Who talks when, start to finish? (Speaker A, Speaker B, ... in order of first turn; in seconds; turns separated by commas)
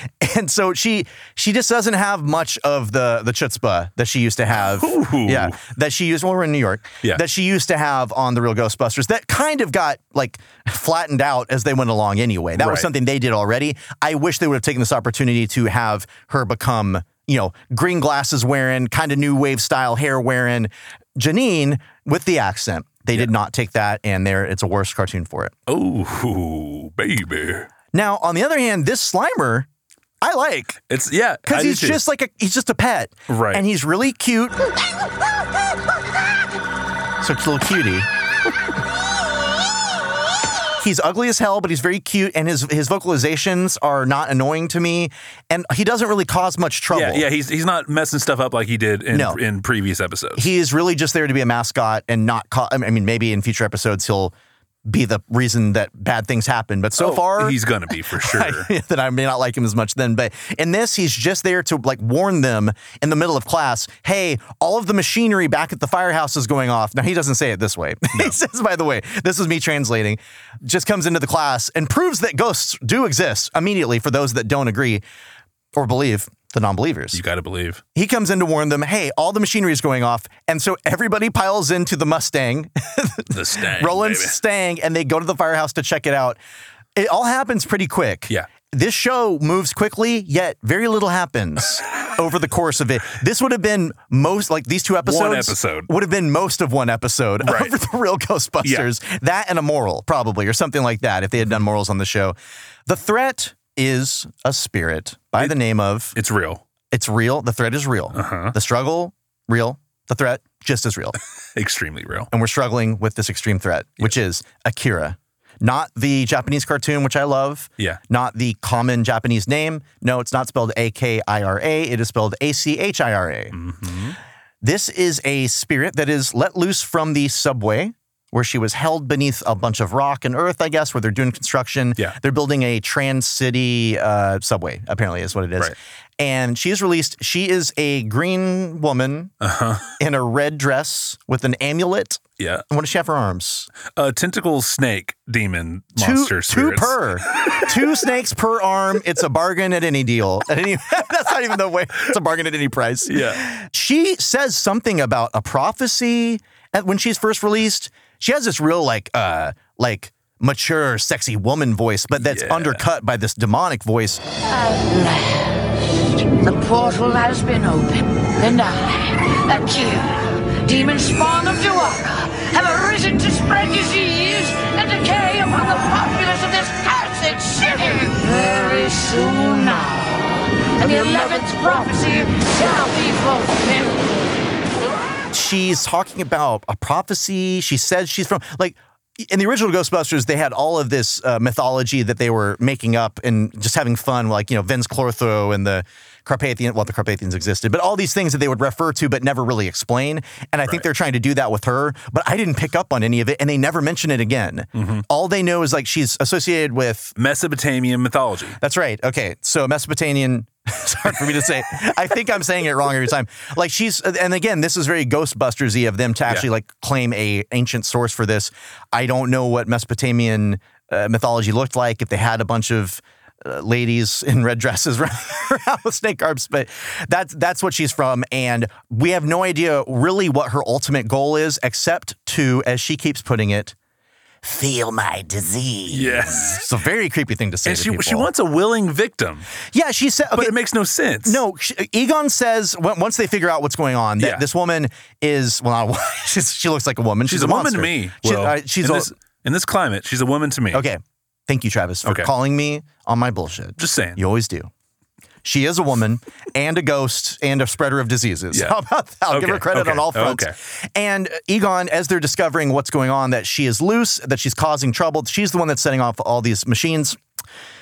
Speaker A: 0.2-25.5, Speaker B: 4.5-5.6, Speaker B: 12.6-12.9, Speaker B: 25.7-27.7, Speaker A: 27.9-29.7, Speaker A: 30.2-30.8, Speaker B: 30.9-32.0, Speaker A: 31.4-34.7, Speaker B: 33.3-33.6, Speaker A: 37.2-38.1, Speaker A: 40.8-47.2, Speaker B: 46.9-50.5, Speaker A: 49.1-49.4, Speaker A: 50.4-54.3, Speaker A: 54.8-75.0, Speaker B: 57.0-58.7, Speaker A: 75.7-77.2, Speaker B: 77.1-77.8, Speaker A: 77.9-86.4, Speaker B: 83.3-84.4, Speaker A: 86.9-102.3, Speaker B: 95.0-95.9, Speaker B: 97.4-97.7, Speaker B: 98.6-98.9, Speaker A: 102.8-106.1, Speaker B: 106.1-106.6, Speaker A: 106.9-111.2, Speaker B: 108.1-108.5, Speaker B: 111.5-112.3, Speaker A: 112.3-123.6, Speaker B: 123.5-124.2, Speaker A: 124.6-139.3, Speaker B: 139.4-139.9, Speaker A: 140.0-143.7, Speaker B: 142.4-142.6, Speaker B: 143.9-147.6, Speaker A: 146.0-164.2, Speaker B: 153.1-153.4, Speaker B: 162.1-162.8, Speaker C: 164.5-165.6, Speaker C: 166.4-184.3, Speaker A: 185.3-207.1, Speaker B: 204.8-205.0, Speaker B: 207.2-208.6, Speaker A: 208.6-233.7, Speaker A: 234.4-238.3, Speaker B: 235.9-236.7, Speaker B: 237.6-239.5, Speaker A: 239.7-240.6, Speaker B: 240.3-241.4, Speaker A: 241.2-249.1, Speaker B: 244.2-244.4, Speaker B: 247.3-250.8, Speaker A: 250.7-254.7, Speaker B: 252.0-252.3, Speaker B: 253.8-254.2, Speaker A: 255.4-267.2, Speaker B: 258.5-258.8, Speaker B: 259.3-260.5